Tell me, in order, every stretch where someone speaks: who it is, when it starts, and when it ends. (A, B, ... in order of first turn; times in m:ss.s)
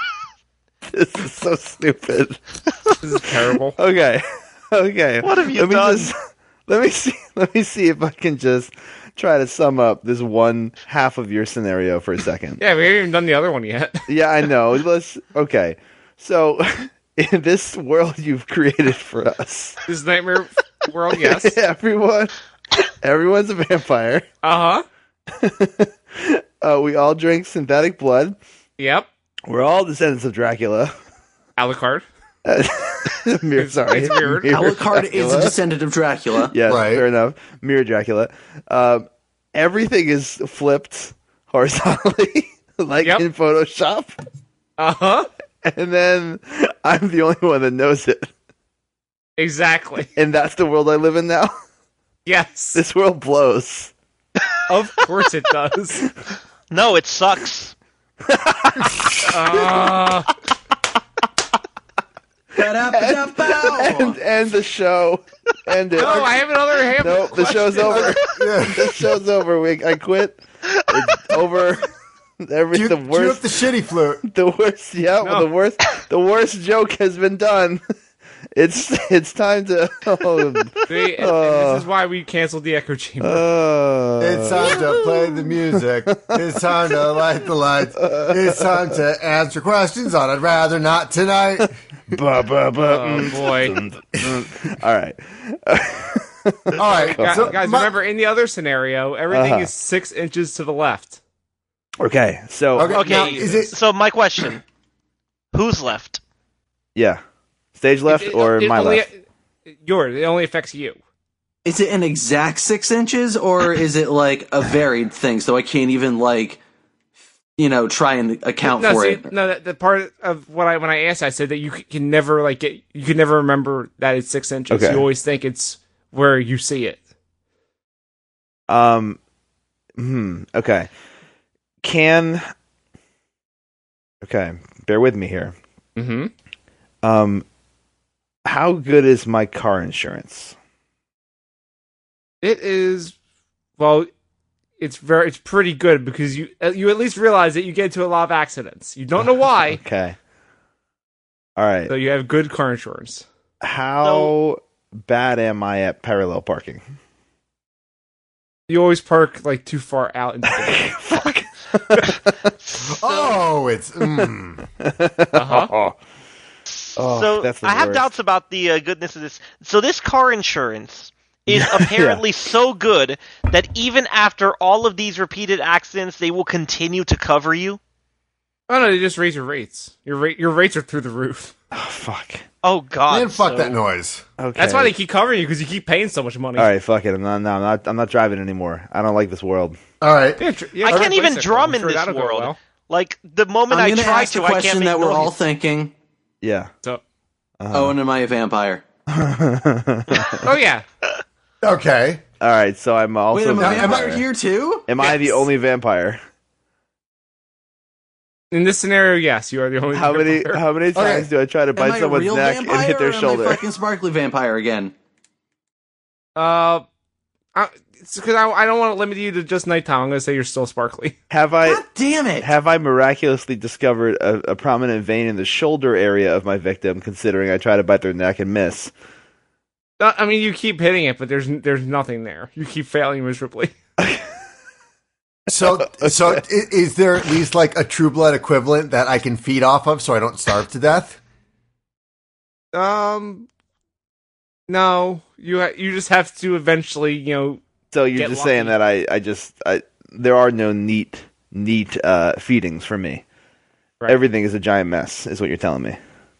0:00.9-0:02.9 A
0:03.0-0:03.8 B
0:03.8-0:06.2 A
0:05.2-0:06.1 C
0:06.7-0:12.6 A
0:12.6-0:14.1 B
0:14.1-0:19.8 A
0:19.9-0:21.6 B
0:21.2-0:24.2 A
0:24.4-0:24.8 B
0:25.3-0:28.4 A
0:28.8-0:29.1 B
0:29.5-0:30.9 A
0:31.6-0:32.1 B
0:32.4-0:35.6 A
0:33.6-0:34.6 B
0:34.5-0:36.6 D
0:36.4-0:44.2 A
0:36.6-0:37.0 E
0:44.8-0:45.3 B
0:45.6-0:48.3 A
0:49.4-0:50.1 B
0:50.2-0:51.5 A
0:52.3-0:52.8 B
0:52.8-0:53.9 A
0:54.7-0:56.0 B
0:56.7-0:57.8 C
0:58.2-0:59.2 A
0:59.2-1:00.3 B
1:02.6-1:04.2 D
1:02.6-1:06.4 A
1:06.0-1:08.2 B
1:06.0-1:06.4 E
1:06.9-1:11.9 A
1:07.8-1:09.1 E
1:12.4-1:13.5 A
1:12.7-1:14.2 E
1:14.2-1:17.8 A
1:15.2-1:15.5 B
1:18.6-1:21.8 A
1:20.9-1:23.4 B
1:23.2-1:27.2 A
1:24.2-1:31.8 E
1:28.0-1:28.9 A
1:32.1-1:37.6 A
1:32.8-1:33.8 B
1:36.8-1:37.9 E
1:37.0-1:41.2 B
1:39.3-1:39.7 A
1:42.0-1:43.2 A
1:42.8-1:43.8 E
1:42.9-1:44.6 C
1:45.5-1:46.2 C
1:47.0-1:47.2 A
1:47.8-1:49.1 A
1:48.1-1:51.0 B
1:51.6-1:56.6 D
1:57.6-1:59.3 D
1:58.6-2:07.0 B
2:04.7-2:05.0 A
2:08.7-2:09.2 A
2:10.0-2:10.9 A
2:11.8-2:12.5 A
2:14.2-2:15.6 A
2:16.0-2:16.3 B
2:17.0-2:17.4 A
2:18.4-2:20.6 A
2:22.4-2:23.2 B
2:23.8-2:24.1 B
2:24.8-2:29.8 B
2:29.7-2:30.2 A
2:31.6-2:31.9 A
2:31.9-2:33.2 B
2:33.6-2:36.8 A
2:34.0-2:34.3 C
2:38.7-2:41.0 B
2:40.6-2:42.5 A
2:42.7-2:43.4 C
2:42.9-2:44.6 E
2:44.1-2:46.0 A
2:45.3-2:45.7 B
2:46.7-2:57.8 C
2:47.0-2:48.1 A
2:51.5-2:52.2 A
2:58.7-3:01.5 B
3:01.7-3:02.4 A
3:02.6-3:03.8 C
3:03.1-3:04.2 E
3:04.4-3:04.9 A
3:04.6-3:06.7 B
3:06.6-3:09.8 A
3:10.0-3:11.1 E
3:10.4-3:12.6 B
3:10.8-3:15.4 C
3:13.7-3:15.9 D
3:16.4-3:16.7 A
3:17.6-3:18.0 A
3:17.7-3:18.8 D
3:19.1-3:20.4 A
3:20.4-3:20.8 B
3:21.6-3:22.2 E
3:22.4-3:24.2 A
3:23.3-3:25.4 D
3:23.6-3:24.2 E
3:24.9-3:26.2 A
3:28.5-3:30.6 B
3:29.9-3:33.6 A
3:30.9-3:31.3 E
3:31.8-3:34.9 D
3:36.4-3:36.8 B
3:37.6-3:41.2 B
3:41.3-3:41.8 A
3:41.6-3:42.5 D
3:42.4-3:48.9 A
3:50.0-3:53.7 B
3:54.0-3:54.2 A
3:55.5-4:01.2 E
3:55.6-3:56.4 A
4:02.7-4:03.5 B
4:04.7-4:07.6 B
4:07.9-4:13.2 A
4:08.2-4:08.8 B
4:14.1-4:16.0 A